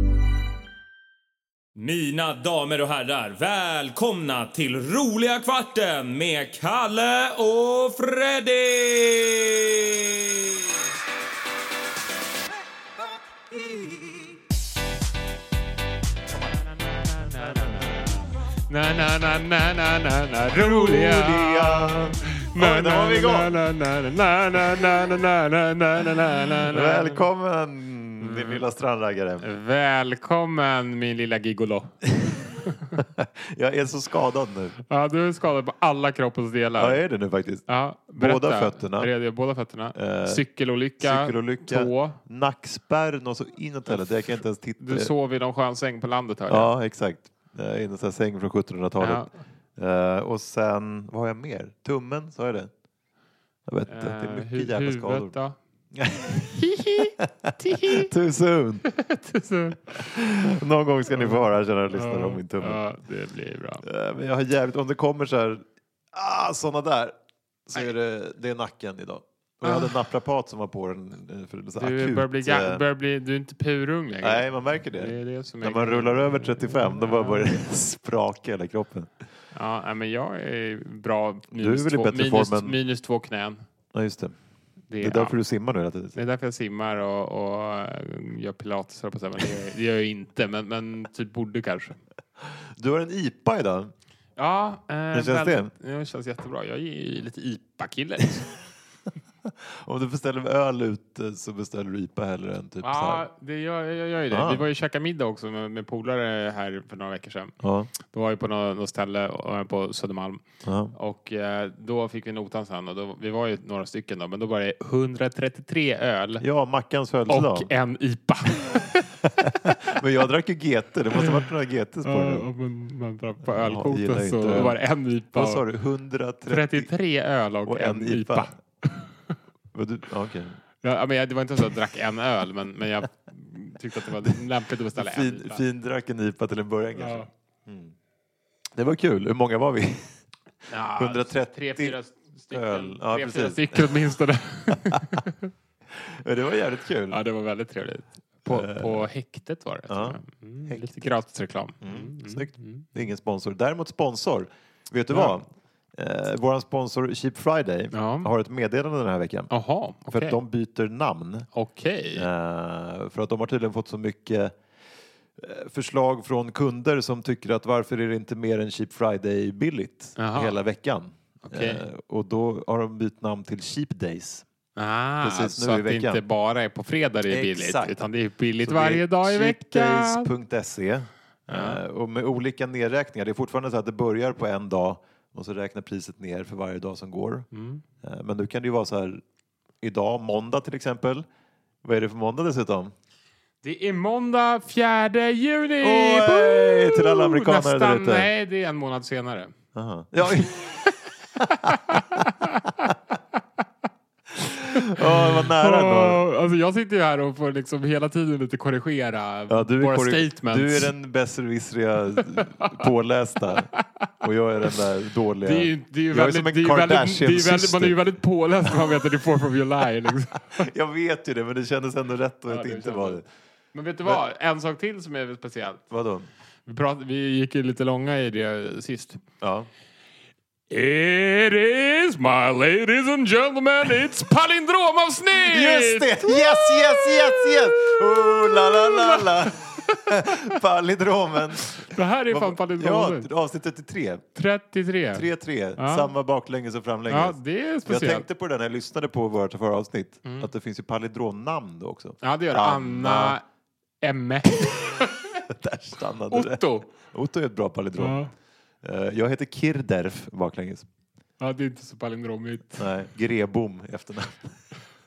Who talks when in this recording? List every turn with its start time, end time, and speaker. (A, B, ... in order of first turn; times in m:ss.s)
0:01.8-0:10.3 A
0:17.1-0:27.2 B
0:20.6-0:23.6 C
0:26.7-0:29.5 C
0:28.2-0:28.6 B
0:29.4-0:32.8 B
0:33.0-0:34.8 C
0:34.9-0:37.0 B
0:36.8-0:37.6 C
0:37.7-0:42.2 B
0:38.2-0:39.1 C
0:39.9-0:40.4 C
0:41.0-0:45.1 C
0:44.8-0:46.7 B
0:46.5-0:52.7 C
0:49.0-0:49.3 B
0:53.7-0:55.4 C
0:53.9-0:55.6 B
0:55.9-0:56.6 C
0:56.6-0:58.1 B
0:57.2-0:58.9 C
0:58.9-1:00.0 B
1:00.0-1:02.8 C
1:01.1-1:03.8 B
1:03.8-1:07.1 C
1:07.7-1:12.8 C
1:09.6-1:10.0 B
1:11.8-1:17.5 B
1:14.2-1:19.1 C
1:19.5-1:23.6 B
1:21.5-1:22.8 C
1:23.9-1:24.3 C
1:24.9-1:25.4 B
1:25.0-1:26.2 C
1:26.1-1:32.0 B
1:32.8-1:33.9 C
1:34.4-1:38.6 B
1:35.1-1:35.7 C
1:39.5-1:43.2 C
1:42.8-1:50.4 B
1:44.3-1:44.7 C
1:47.6-1:47.9 C
1:50.6-1:50.9 C
1:50.9-1:56.4 B
1:56.4-1:57.7 C
1:57.3-1:59.0 B
1:59.6-2:02.4 C
2:01.1-2:01.4 B
2:02.0-2:05.6 B
2:03.5-2:04.8 C
2:05.3-2:06.9 C
2:06.4-2:09.1 B
2:07.6-2:08.5 C
2:09.7-2:10.6 C
2:10.8-2:15.6 B
2:15.0-2:17.9 C
2:17.0-2:17.3 B
2:18.8-2:20.1 C
2:20.7-2:25.4 B
2:21.0-2:22.0 C
2:22.5-2:24.0 C
2:26.0-2:27.2 C
2:27.1-2:32.8 B
2:28.4-2:29.1 C
2:29.9-2:30.9 C
2:31.8-2:39.5 C
2:35.1-2:35.4 B
2:37.9-2:38.3 B
2:39.5-2:40.4 B
2:40.1-2:41.5 C
2:41.5-2:42.2 B
2:42.2-2:44.5 C
2:45.4-2:54.4 C
2:50.2-2:50.5 B
2:51.5-2:51.8 B
2:54.8-3:00.3 B
2:55.2-2:56.2 C
2:57.3-2:58.0 C
2:58.6-3:07.5 C
3:01.5-3:01.8 B
3:07.5-3:07.8 B
3:08.0-3:09.2 C
3:09.8-3:11.2 C
3:11.8-3:12.9 C
3:13.6-3:19.5 B
3:15.8-3:18.3 C
3:19.7-3:20.6 C
3:20.3-3:20.8 B
3:21.4-3:22.9 B
3:24.4-3:26.2 C
3:24.7-3:30.9 B
3:29.5-3:33.7 C
3:34.2-3:38.0 C
3:35.4-3:40.7 B
3:40.5-3:43.2 C
3:42.5-3:43.2 B
3:43.7-3:45.8 B
3:45.9-3:46.3 C
3:46.6-3:49.2 B
3:49.4-3:49.7 C
3:50.7-4:00.0 B
3:55.4-4:04.2 C
4:01.8-4:03.3 B
4:04.3-4:06.1 B
4:05.1-4:13.4 C
4:07.1-4:08.2 B
4:10.2-4:10.5 B
4:12.2-4:13.4 B
4:14.0-4:15.3 B
4:15.5-4:18.3 C
4:16.3-4:16.9 B
4:18.0-4:18.3 B
4:18.8-4:20.8 C
4:21.4-4:22.9 B
4:22.8-4:24.6 C